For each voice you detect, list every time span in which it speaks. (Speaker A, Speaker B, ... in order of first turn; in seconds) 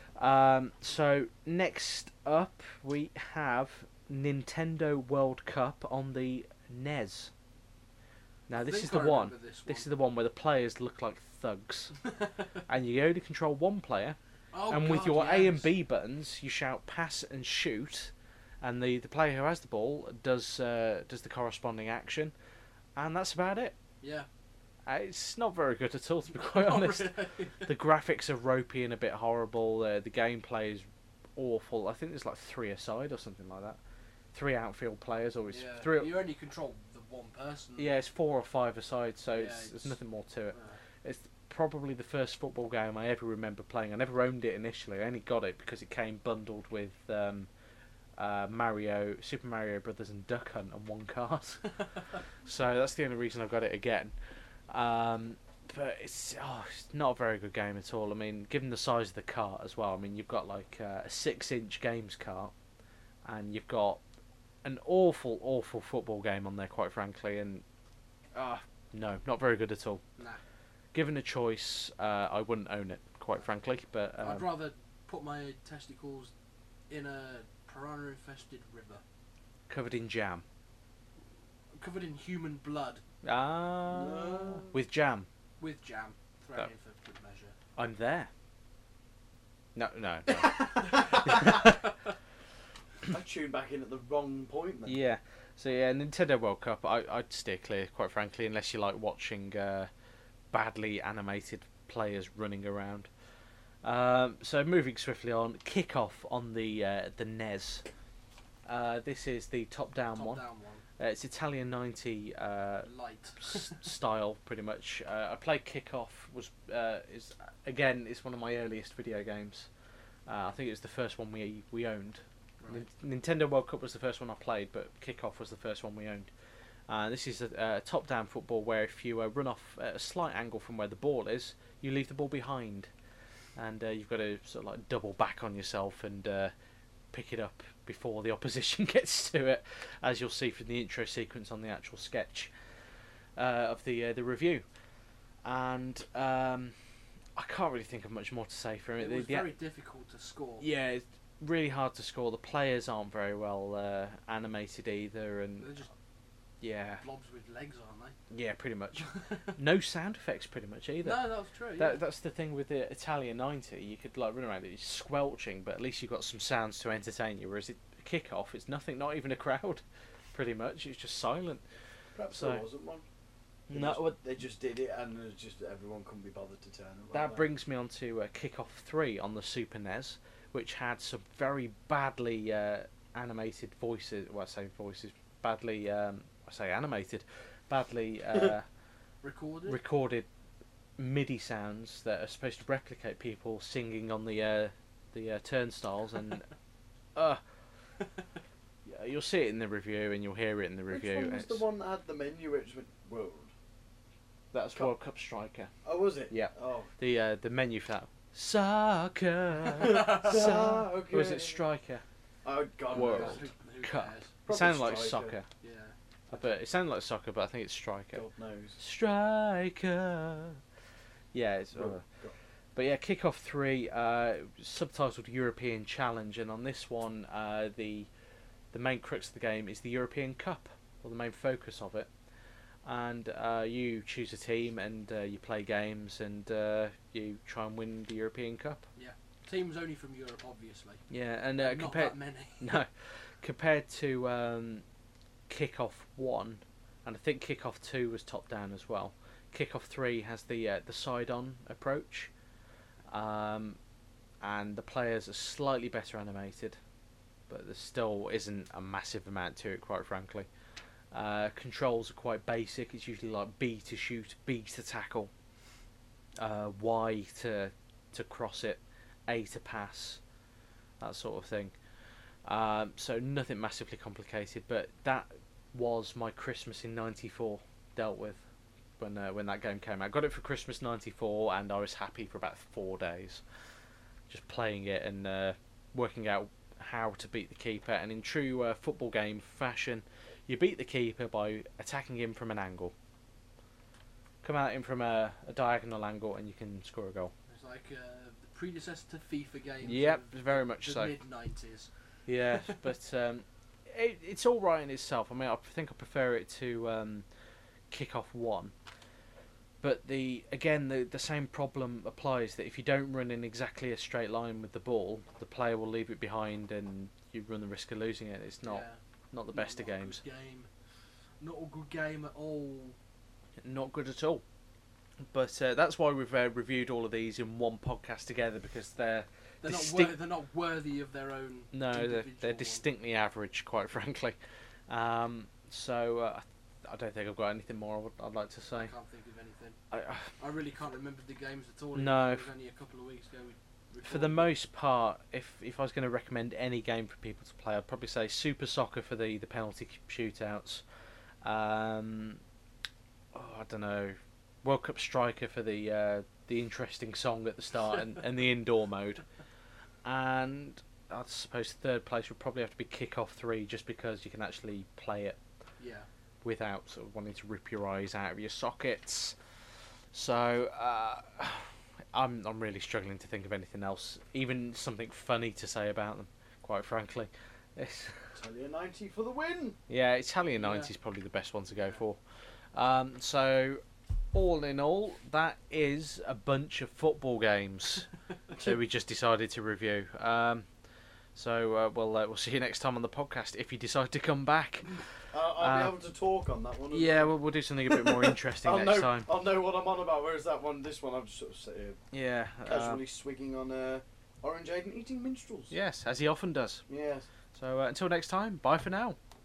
Speaker A: 0.2-7.3, 8.5-12.0, 12.6-14.2, 14.7-22.3, 23.0-23.8, 24.9-30.9, 31.4-33.8, 34.3-36.1, 37.8-47.5, 48.2-54.1, 54.7-62.5, 63.3-64.0, 64.6-67.6, 68.3-70.0, 70.9-74.5, 79.7-80.4, 83.2-85.3, 87.8-88.3, 89.8-91.7, 94.8-99.9, 100.5-103.1, 103.8-107.8, 108.7-110.4, 111.0-112.9, 113.4-119.7, 120.3-126.3, 126.9-132.9, 133.6-136.5, 137.1-142.5, 143.4-144.7, 145.4-146.7, 147.4-149.5, 150.6-155.8, 156.6-157.0, 158.3-169.8, 170.3-171.6, 172.3-172.6, 173.7-174.2, 177.1-188.7, 189.7-190.3, 191.0-196.5, 197.2-197.4, 198.9-201.6, 204.5-205.7, 206.3-212.0, 212.9-215.5, 216.3-218.2, 218.8-220.6, 221.3-222.0, 222.8-228.1, 228.7-232.1, 232.9-238.8, 241.1-242.9, 243.4-244.8, 245.5-252.3, 253.1-253.8, 254.4-256.8, 257.5-260.5, 261.1-265.3, 266.4-270.2, 271.0-271.8, 272.5-278.4, 279.0-283.4, 284.3-292.9, 294.4-297.3, 299.8-301.1, 302.3-307.2, 307.9-308.7, 309.8-320.2, 323.6-324.4, 325.3-330.2, 331.7-334.4, 334.9-338.9, 339.9-340.3, 341.9-342.5, 344.0-350.8, 351.4-352.4, 353.3-359.2, 360.1-365.4, 366.4-369.4, 370.1-378.3, 379.9-382.2, 382.7-383.8, 384.3-390.7, 391.4-395.9, 396.9-399.3, 402.1-403.0, 405.7-406.8, 407.6-409.2
Speaker B: 8.5-9.9, 12.1-12.4, 14.5-15.7, 24.0-24.3, 26.3-27.7, 35.5-38.0, 39.3-40.0, 40.5-40.8, 74.2-76.3, 76.9-79.0, 81.8-83.0, 85.6-87.5, 90.5-91.9, 110.1-110.8, 112.8-113.8, 122.6-122.9, 149.0-150.7, 155.6-155.9, 157.0-158.2, 159.0-159.5, 161.0-162.0, 189.2-189.8, 212.9-214.4, 215.5-216.4, 239.0-241.0, 241.6-242.7, 297.5-301.9, 302.4-302.8, 318.6-320.7, 321.4-323.0, 329.6-332.8, 338.7-344.6, 365.8-366.1, 380.6-380.9
Speaker C: 83.9-84.8, 93.1-95.0, 172.2-173.1, 173.7-177.5, 200.9-203.5, 205.8-206.9, 209.8-211.6, 212.4-213.5, 214.5-215.4, 218.1-218.8, 221.8-222.3, 378.3-379.8, 395.3-397.4, 397.9-402.0, 402.6-405.7, 406.9-407.3